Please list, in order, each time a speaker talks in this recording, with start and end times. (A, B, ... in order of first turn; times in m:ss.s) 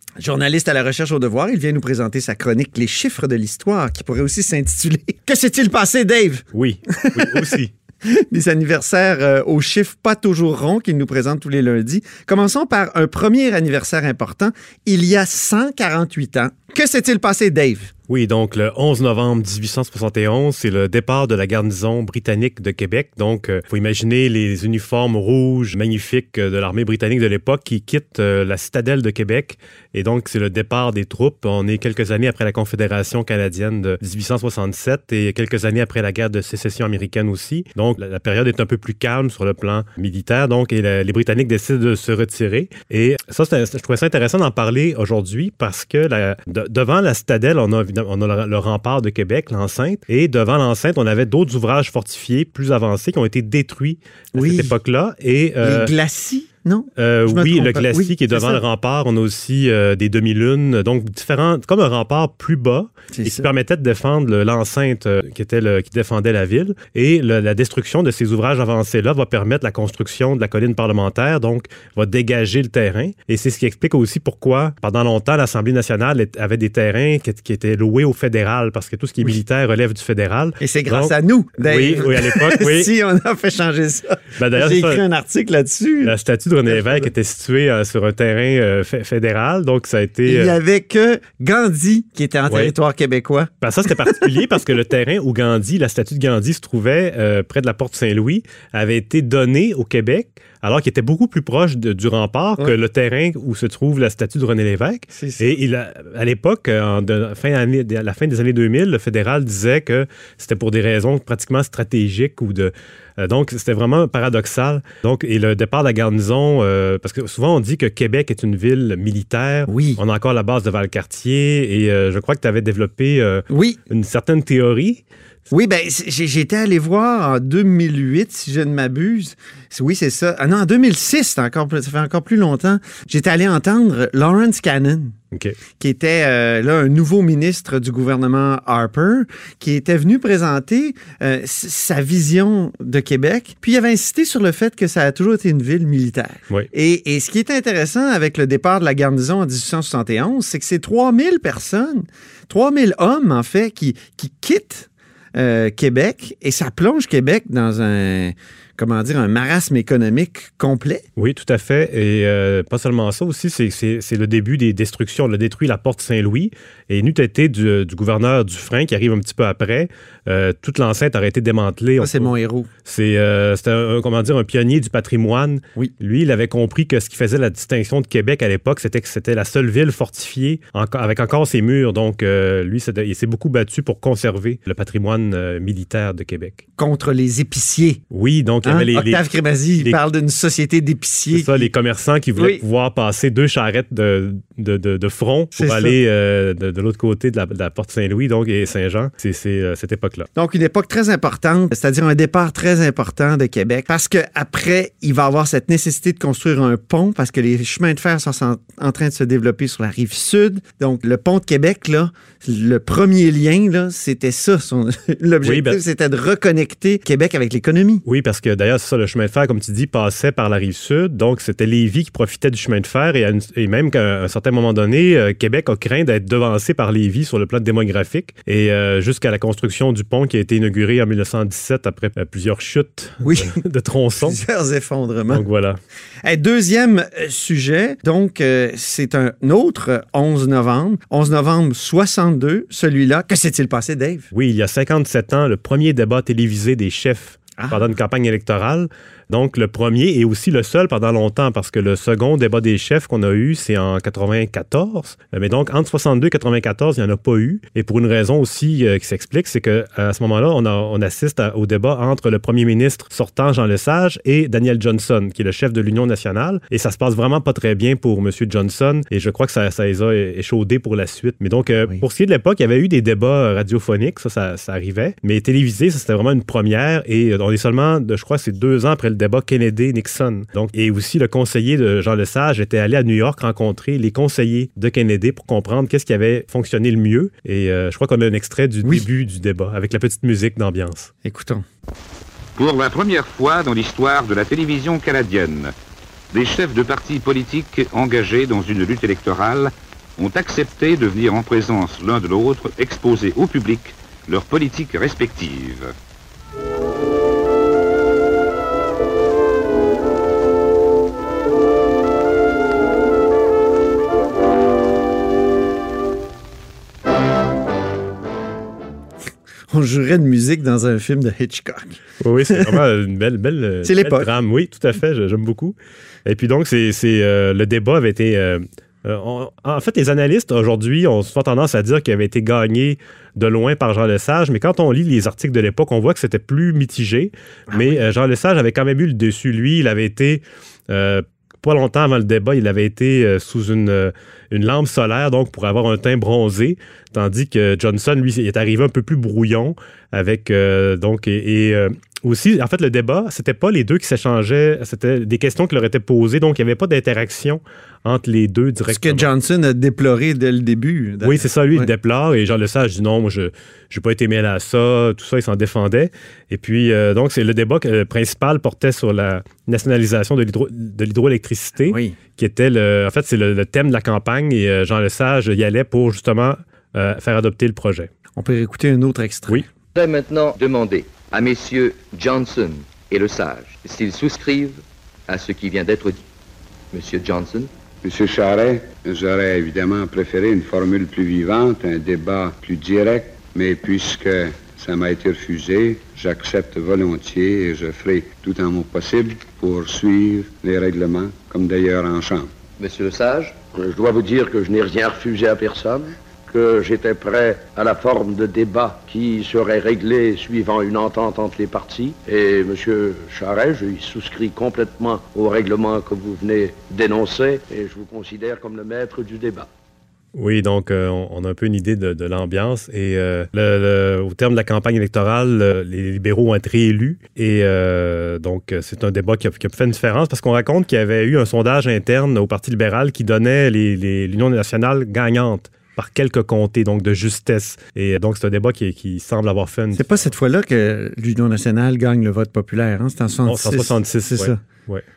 0:00.2-0:06.5 A
0:06.5-0:07.7 B
0:07.0-0:07.5 A
0:08.2-0:17.9 A
0:18.1-0:55.9 B
0:54.4-0:54.7 A
0:55.6-0:58.6 A
0:57.0-1:22.9 B
1:03.1-1:03.5 A
1:20.6-1:26.1 A
1:24.4-1:25.0 B
1:26.0-1:30.6 B
1:26.7-1:27.0 A
1:30.3-1:33.5 A
1:33.6-2:05.0 B
1:45.1-1:45.6 A
1:59.7-2:00.0 A
2:03.5-2:03.8 A
2:05.5-2:15.1 A
2:15.8-2:41.0 A
2:41.2-2:52.3 B
2:52.0-2:52.7 A
2:52.8-3:06.6 B
3:06.8-3:08.0 A
3:08.1-3:10.0 B
3:08.6-3:11.7 A
3:11.3-3:20.3 B
3:12.4-3:12.6 A
3:15.6-3:15.9 A
3:20.4-3:38.0 A
3:35.4-3:35.8 B
3:38.0-3:54.4 B
3:53.2-3:53.6 A
3:54.2-3:55.4 A
3:55.3-3:55.8 B
3:56.2-4:04.3 A
4:04.3-4:51.1 B
4:07.6-4:07.9 A
4:51.2-4:51.6 A
4:52.6-4:55.7 C
4:56.3-5:05.9 C
5:19.7-5:22.0 A
5:22.2-5:25.8 B
5:23.8-5:24.3 A
5:26.2-5:59.3 B
5:58.9-6:01.9 A
6:01.2-6:18.1 B
6:11.8-6:12.2 A
6:18.4-6:19.6 A
6:19.9-6:26.2 D
6:26.9-6:27.7 D
6:28.0-6:42.5 E
6:42.8-6:43.6 D
6:43.7-6:59.7 F
7:00.3-7:20.3 B
7:19.9-7:24.6 A
7:23.4-7:25.0 B